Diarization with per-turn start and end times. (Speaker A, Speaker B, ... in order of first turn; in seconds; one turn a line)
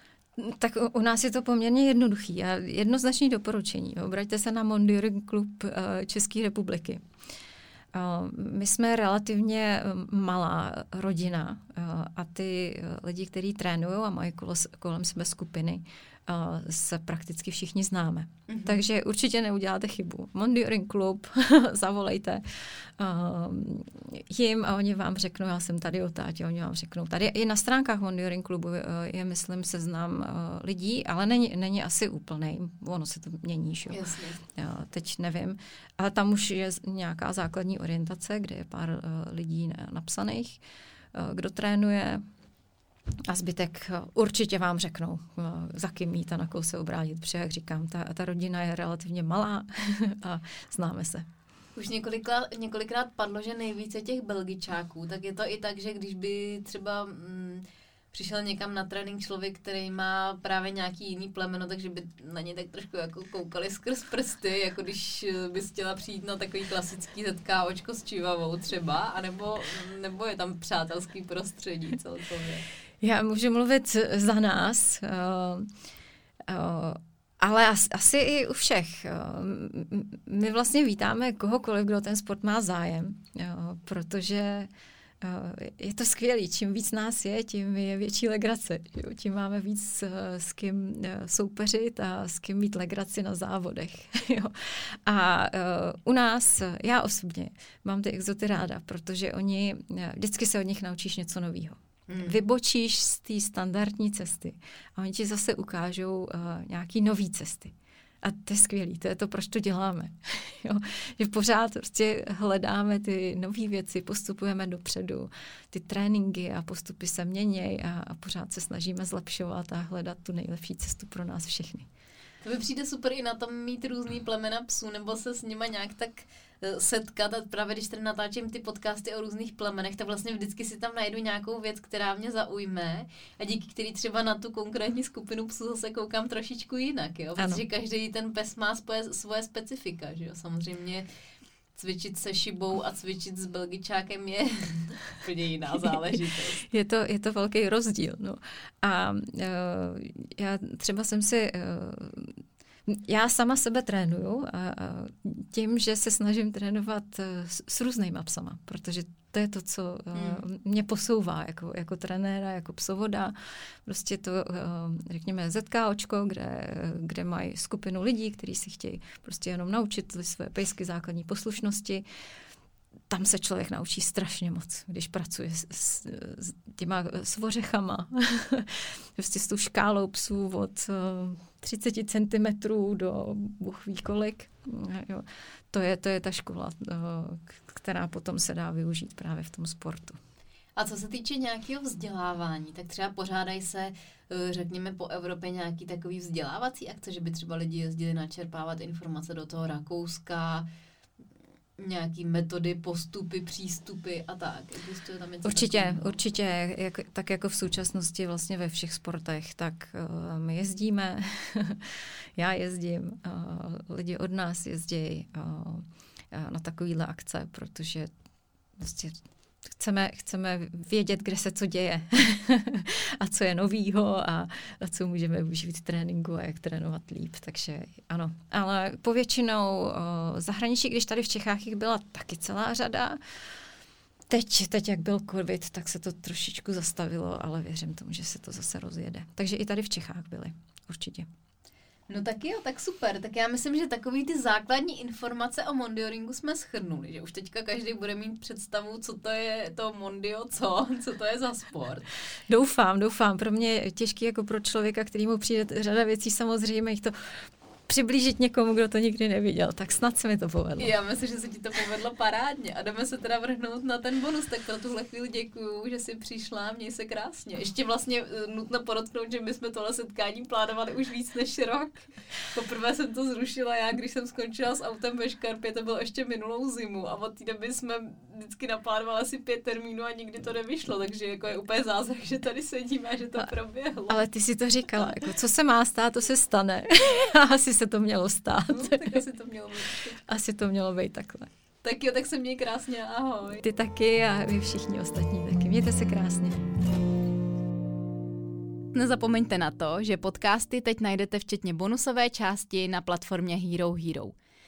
Speaker A: 0.4-7.0
Speaker A: 7.9-40.6
Speaker B: 18.5-18.8
Speaker B: 33.9-34.4
Speaker A: 41.1-42.2
Speaker A: 43.3-51.2
Speaker B: 51.8-72.7
Speaker A: 73.0-75.7
Speaker A: 76.5-84.7
Speaker A: 85.2-121.9
Speaker B: 102.1-102.4
Speaker B: 122.4-141.1
Speaker A: 137.4-137.6
Speaker B: 141.8-146.6
Speaker A: 145.8-172.0
Speaker B: 160.1-160.4
Speaker A: 173.1-190.2
Speaker B: 190.8-200.7
Speaker B: 201.8-206.2
Speaker A: 205.5-218.1
Speaker A: 218.8-233.2
Speaker A: 234.3-241.3
Speaker B: 242.1-252.1
Speaker A: 252.5-257.1
Speaker A: 257.9-260.9
Speaker B: 260.8-284.2
Speaker A: 284.1-289.2
Speaker B: 288.7-290.2
Speaker A: 290.2-291.5
Speaker B: 291.8-293.6
Speaker A: 293.6-296.6
Speaker B: 298.9-304.4